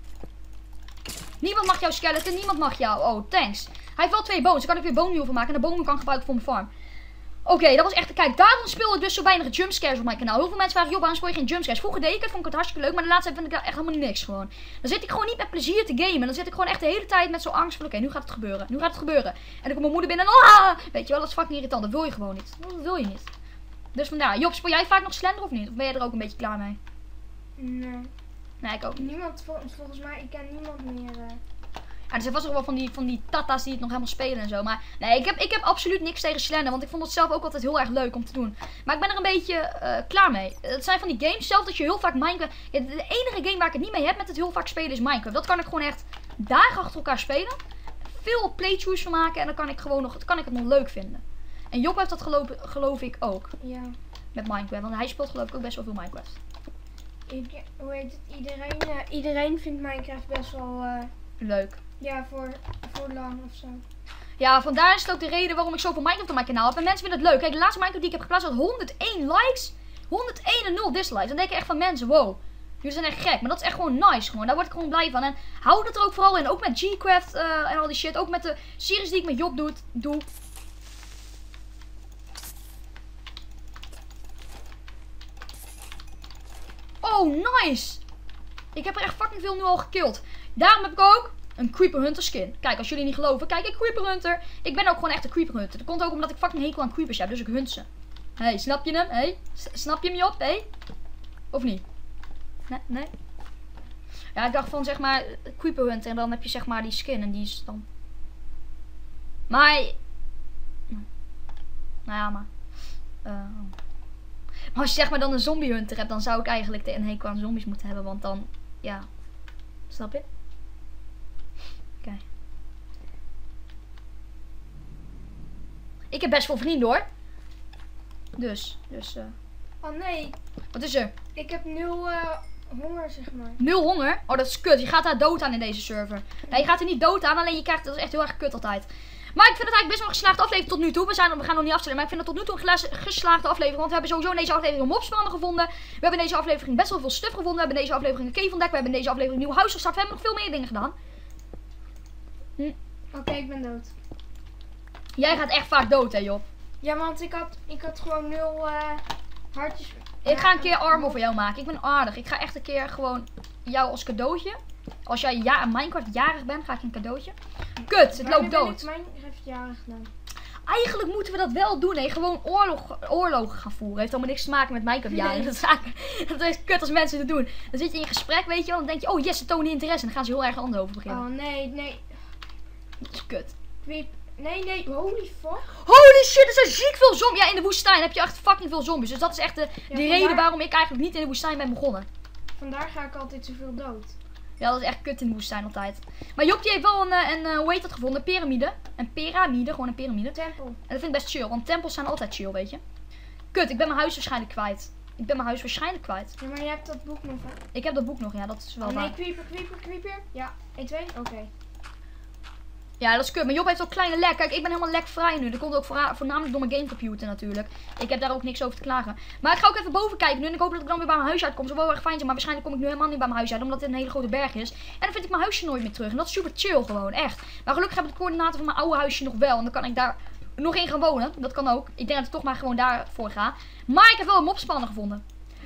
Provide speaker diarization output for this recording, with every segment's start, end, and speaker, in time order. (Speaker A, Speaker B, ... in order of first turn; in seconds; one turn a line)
Speaker A: 1.4-6.7
Speaker A: 7.4-23.3
Speaker A: 23.9-26.8
Speaker B: 27.6-28.1
Speaker A: 28.6-29.1
Speaker B: 28.9-31.4
Speaker A: 32.1-47.6
Speaker A: 48.1-53.5
Speaker B: 53.6-53.9
Speaker A: 54.3-56.4
Speaker B: 57.3-61.1
Speaker A: 61.4-61.8
Speaker B: 62.0-63.8
Speaker A: 64.4-80.3
Speaker A: 87.0-88.0
Speaker A: 88.7-97.9
Speaker A: 98.4-100.7
Speaker A: 101.5-101.8
Speaker A: 102.7-103.1
Speaker A: 104.3-107.8
Speaker A: 109.5-110.0
Speaker A: 112.1-112.5
Speaker A: 113.2-113.7
Speaker A: 114.7-119.1
Speaker A: 119.9-120.2
Speaker A: 126.1-127.0
Speaker A: 128.3-129.3
Speaker B: 129.8-130.3
Speaker A: 130.7-131.1
Speaker B: 131.3-133.6
Speaker A: 133.6-150.9
Speaker B: 153.1-153.9
Speaker A: 155.2-156.4
Speaker B: 156.8-161.2
Speaker A: 160.2-167.3
Speaker B: 167.8-170.1
Speaker A: 167.9-168.8
Speaker A: 170.7-181.2
Speaker B: 181.1-182.2
Speaker A: 183.0-183.5
Speaker B: 183.8-185.7
Speaker A: 185.7-192.1
Speaker B: 189.9-190.5
Speaker B: 192.6-194.1
Speaker A: 194.6-202.8
Speaker B: 200.3-200.8
Speaker A: 203.5-206.3
Speaker B: 206.4-207.6
Speaker A: 207.7-209.1
Speaker B: 208.8-211.5
Speaker A: 213.0-235.2